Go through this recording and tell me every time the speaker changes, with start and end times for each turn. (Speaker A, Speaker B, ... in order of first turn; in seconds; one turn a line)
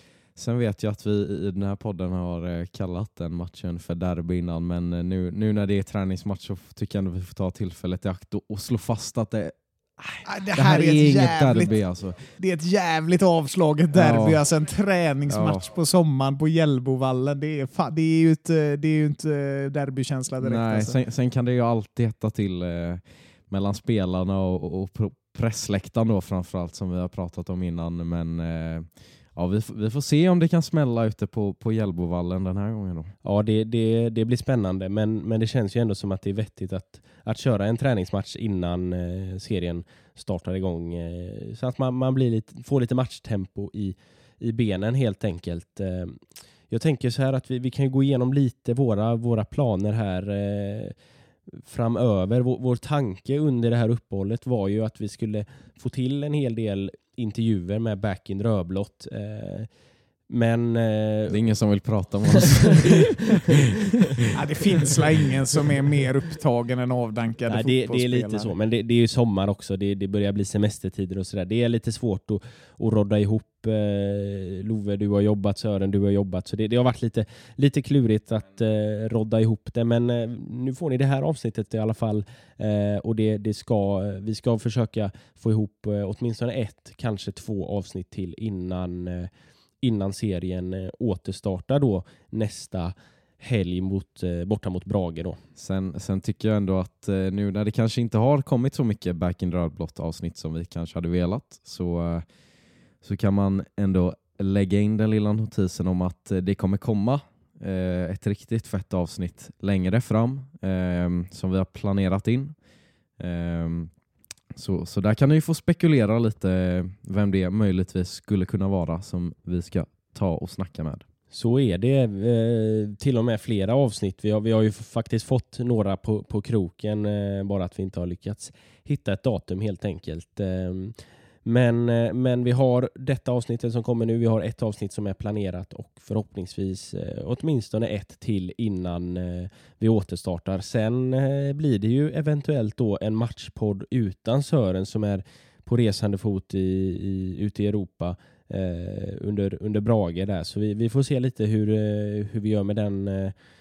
Speaker A: 0.4-12.2
Speaker B: 10.2-11.8
Speaker B: 12.4-21.0
Speaker A: 13.9-14.4
Speaker A: 15.3-15.7
Speaker A: 20.4-33.1
Speaker C: 33.2-51.0
Speaker C: 51.5-59.7
Speaker C: 60.3-61.4
Speaker A: 61.3-63.0
Speaker B: 64.3-68.5
Speaker C: 67.5-89.3
Speaker C: 89.8-95.4
Speaker A: 95.6-102.2
Speaker A: 103.0-112.5
Speaker A: 113.2-113.9
Speaker A: 114.5-121.0
Speaker C: 121.3-153.3